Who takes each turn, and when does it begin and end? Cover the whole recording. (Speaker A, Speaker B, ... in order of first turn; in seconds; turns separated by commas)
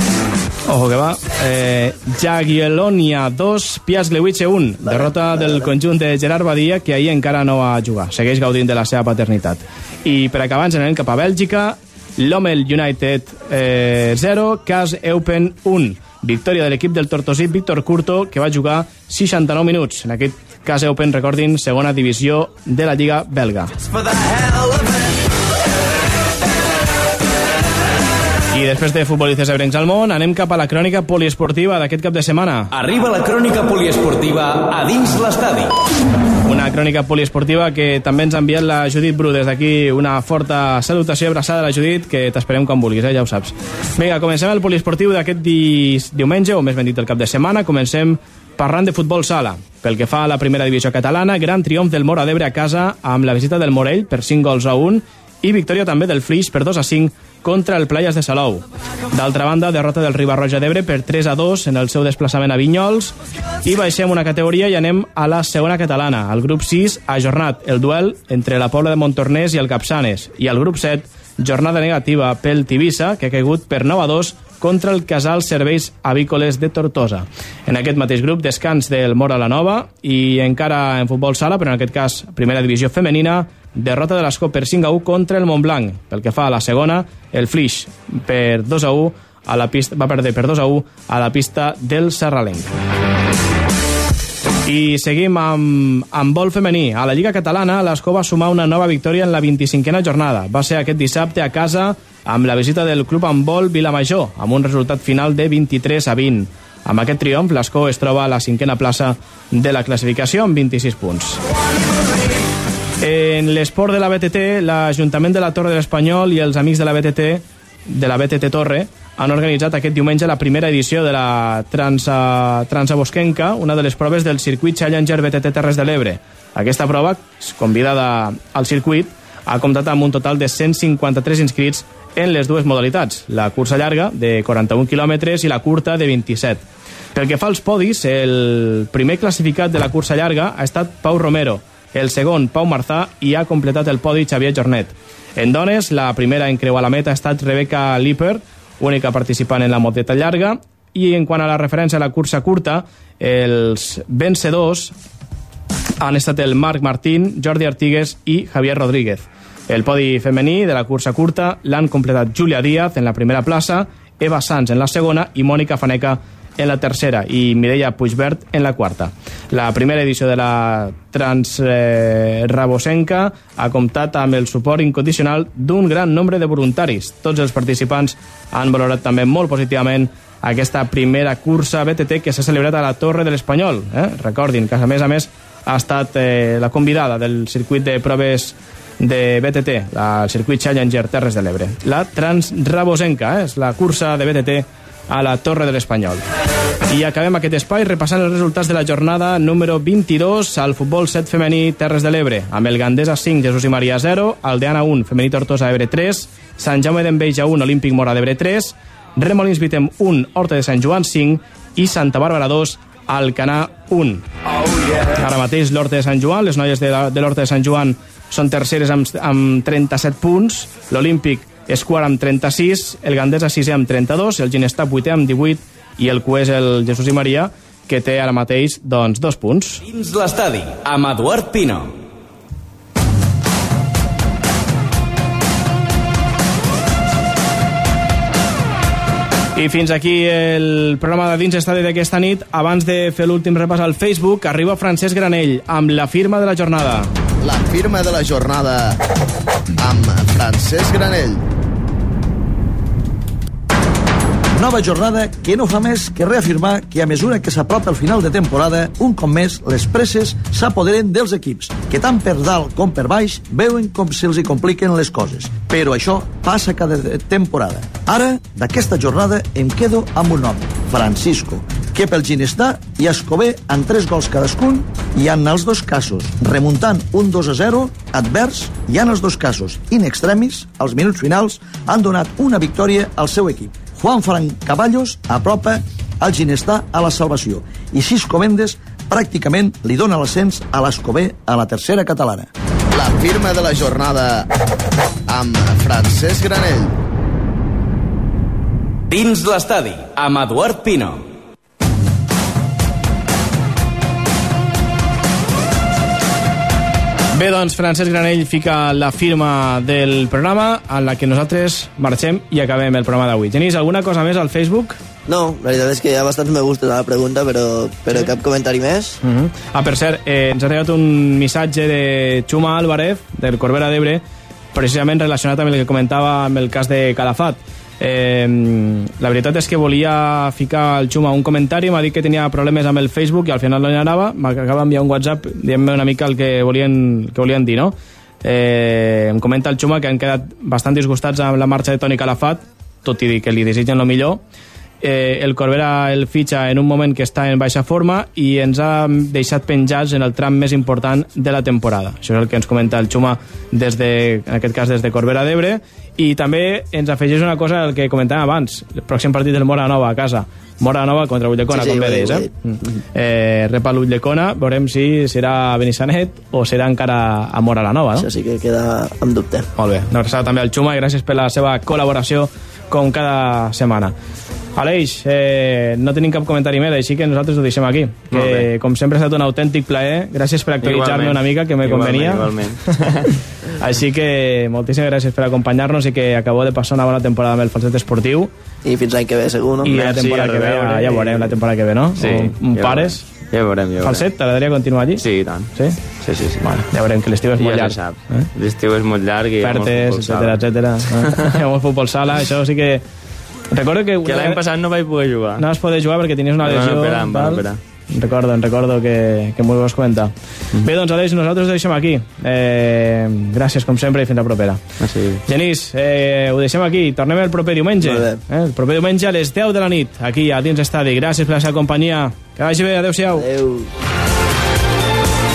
Speaker A: 0.7-23.7, Speaker B: 4.8-5.7, Speaker C: 24.1-24.8, Speaker A: 28.5-32.7, Speaker C: 32.7-35.7, Speaker A: 36.5-92.7, Speaker A: 94.7-111.4, Speaker A: 113.0-136.6, Speaker A: 137.1-154.9, Speaker A: 156.0-196.2, Speaker A: 196.9-214.3, Speaker A: 215.1-229.8, Speaker C: 229.8-231.9, Speaker A: 239.6-247.1, Speaker D: 247.4-249.0, Speaker D: 249.8-251.4, Speaker E: 254.6-292.5, Speaker D: 292.9-294.5, Speaker D: 295.3-296.9, Speaker C: 299.1-301.2, Speaker A: 307.3-315.0, Speaker B: 315.3-319.2, Speaker A: 319.2-324.2, Speaker A: 324.7-344.4, Speaker A: 345.0-368.3, Speaker B: 361.7-362.5, Speaker B: 368.2-369.7, Speaker A: 369.8-374.1, Speaker A: 374.8-382.5, Speaker F: 378.3-378.7, Speaker F: 380.8-383.3, Speaker A: 383.8-388.5, Speaker B: 388.8-389.9, Speaker A: 389.8-393.2, Speaker F: 389.8-391.6, Speaker F: 392.2-394.3, Speaker A: 394.0-396.0, Speaker F: 395.2-395.7, Speaker F: 396.2-396.7, Speaker A: 396.6-398.5, Speaker F: 397.6-401.5, Speaker A: 399.6-403.0, Speaker A: 403.7-404.6, Speaker F: 404.3-405.6, Speaker A: 405.6-414.8, Speaker F: 406.6-407.8, Speaker F: 415.0-415.4, Speaker A: 415.4-423.4, Speaker B: 418.0-418.4, Speaker B: 423.4-423.9